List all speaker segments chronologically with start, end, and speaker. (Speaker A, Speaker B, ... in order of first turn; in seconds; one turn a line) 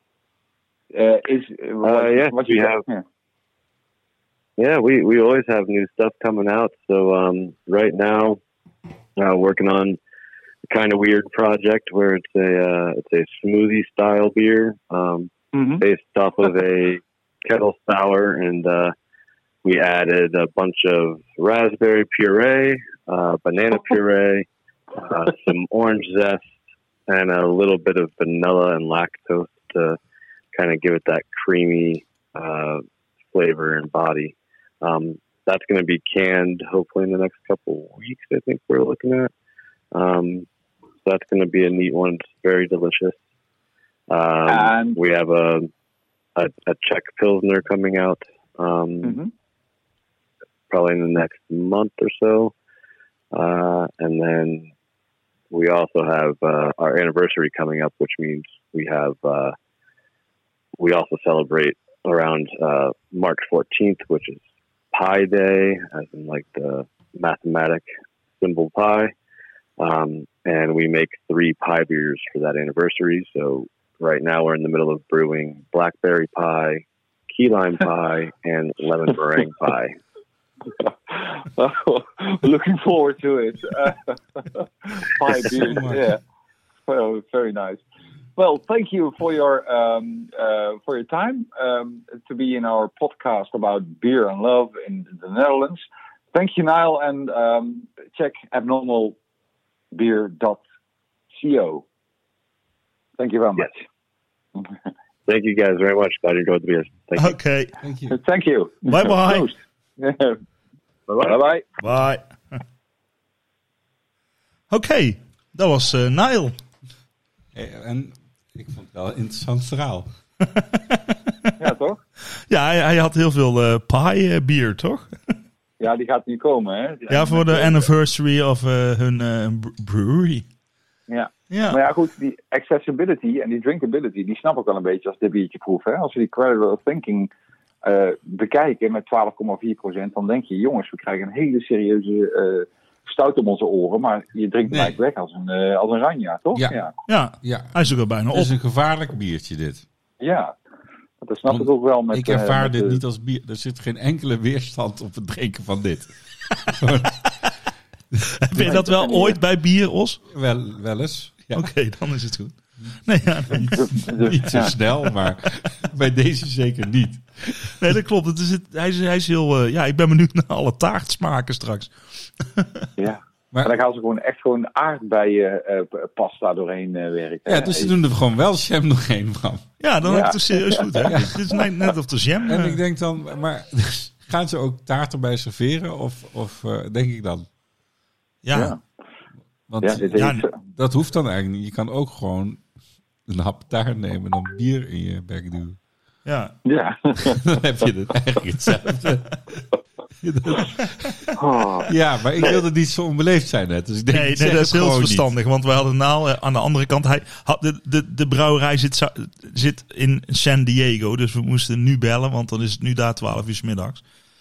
Speaker A: 0.9-3.0
Speaker B: 1.8-2.8
Speaker B: 4.6-8.4
Speaker B: 9.2-10.0
Speaker B: 10.7-18.9
Speaker A: 15.5-15.8
Speaker B: 19.6-26.4
Speaker B: 27.1-30.0
Speaker B: 30.5-39.3
Speaker B: 39.9-40.5
Speaker B: 41.0-43.2
Speaker B: 44.1-45.7
Speaker A: 44.5-45.0
Speaker B: 46.4-49.2
Speaker A: 49.0-49.3
Speaker B: 50.7-52.5
Speaker B: 53.3-54.7
Speaker B: 55.5-59.5
Speaker B: 60.8-64.4
Speaker B: 64.9-67.8
Speaker B: 68.4-69.1
Speaker B: 69.8-80.0
Speaker A: 80.8-86.2
Speaker C: 85.5-86.1
Speaker A: 86.9-87.8
Speaker A: 88.3-99.2
Speaker A: 99.9-100.6
Speaker A: 101.3-101.8
Speaker A: 103.2-103.8
Speaker B: 105.2-107.4
Speaker D: 107.2-107.7
Speaker C: 107.8-108.2
Speaker A: 108.1-110.4
Speaker D: 108.8-109.5
Speaker B: 111.1-111.3
Speaker A: 111.2-111.7
Speaker D: 111.8-112.2
Speaker D: 114.7-116.5
Speaker C: 117.5-120.1
Speaker D: 120.4-121.5
Speaker A: 121.6-122.0
Speaker D: 122.5-125.1
Speaker A: 125.8-127.9
Speaker D: 127.1-130.4
Speaker A: 131.1-137.3
Speaker D: 131.5-131.8
Speaker A: 137.8-146.9
Speaker C: 144.7-145.0
Speaker D: 147.1-148.5
Speaker C: 147.4-147.7
Speaker C: 148.3-149.8
Speaker A: 150.2-150.5
Speaker A: 151.2-153.0
Speaker C: 151.5-157.2
Speaker D: 158.4-160.2
Speaker A: 158.6-159.4
Speaker C: 160.3-161.7
Speaker D: 161.5-164.1
Speaker C: 163.5-167.8
Speaker A: 163.7-164.7
Speaker D: 167.8-171.9
Speaker D: 172.6-172.8
Speaker A: 173.0-177.9
Speaker C: 177.4-179.6
Speaker D: 179.8-182.8
Speaker A: 180.0-181.3
Speaker C: 181.1-181.3
Speaker C: 182.4-187.4
Speaker D: 188.4-188.7
Speaker A: 188.5-188.8
Speaker C: 189.7-192.6
Speaker A: 189.8-190.5
Speaker D: 190.1-190.4
Speaker C: 193.3-195.8
Speaker D: 196.2-196.5
Speaker A: 196.6-197.6
Speaker C: 197.2-199.4
Speaker C: 200.2-201.1
Speaker B: 201.5-201.8
Speaker C: 201.8-205.3
Speaker D: 204.1-214.0